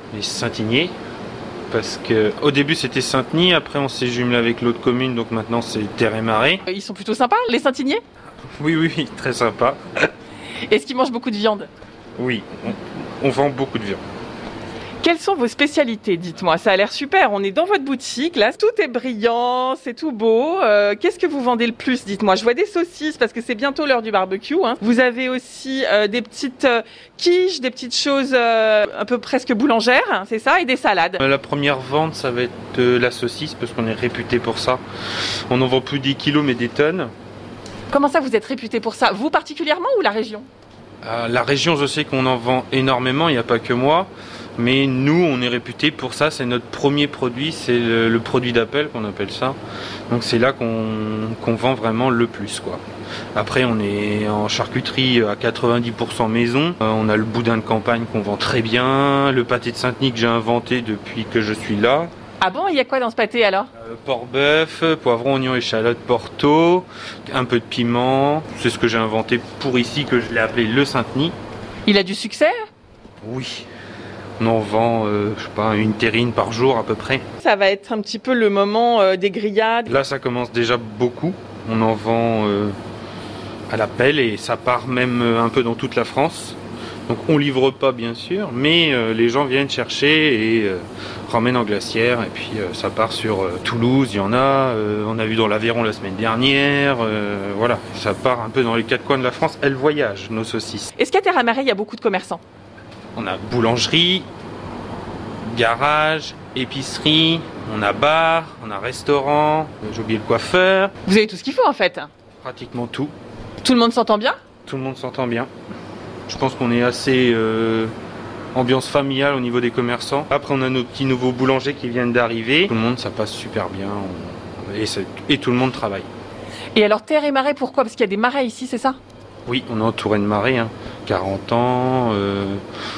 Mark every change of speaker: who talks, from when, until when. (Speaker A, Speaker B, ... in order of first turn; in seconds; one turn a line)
Speaker A: 0.1-0.9
Speaker A: 1.7-6.6
Speaker B: 6.7-8.0
Speaker A: 8.6-10.1
Speaker B: 10.7-11.7
Speaker A: 12.2-14.0
Speaker B: 15.0-31.2
Speaker A: 31.2-34.8
Speaker A: 35.5-37.1
Speaker B: 37.9-40.5
Speaker A: 41.0-49.6
Speaker A: 50.1-52.8
Speaker A: 53.3-62.1
Speaker B: 62.4-63.7
Speaker A: 63.7-71.3
Speaker B: 71.8-72.6
Speaker A: 73.2-73.7
Speaker A: 74.4-77.2
Speaker B: 77.4-79.9
Speaker A: 79.9-82.7
Speaker A: 83.7-100.9
Speaker B: 101.0-102.4
Speaker A: 103.1-104.3
Speaker A: 105.5-110.9
Speaker B: 111.0-112.1
Speaker A: 112.4-113.1
Speaker B: 113.6-114.4
Speaker A: 114.7-115.5
Speaker A: 116.3-117.9
Speaker A: 118.5-126.1
Speaker B: 126.8-129.0
Speaker A: 129.5-132.6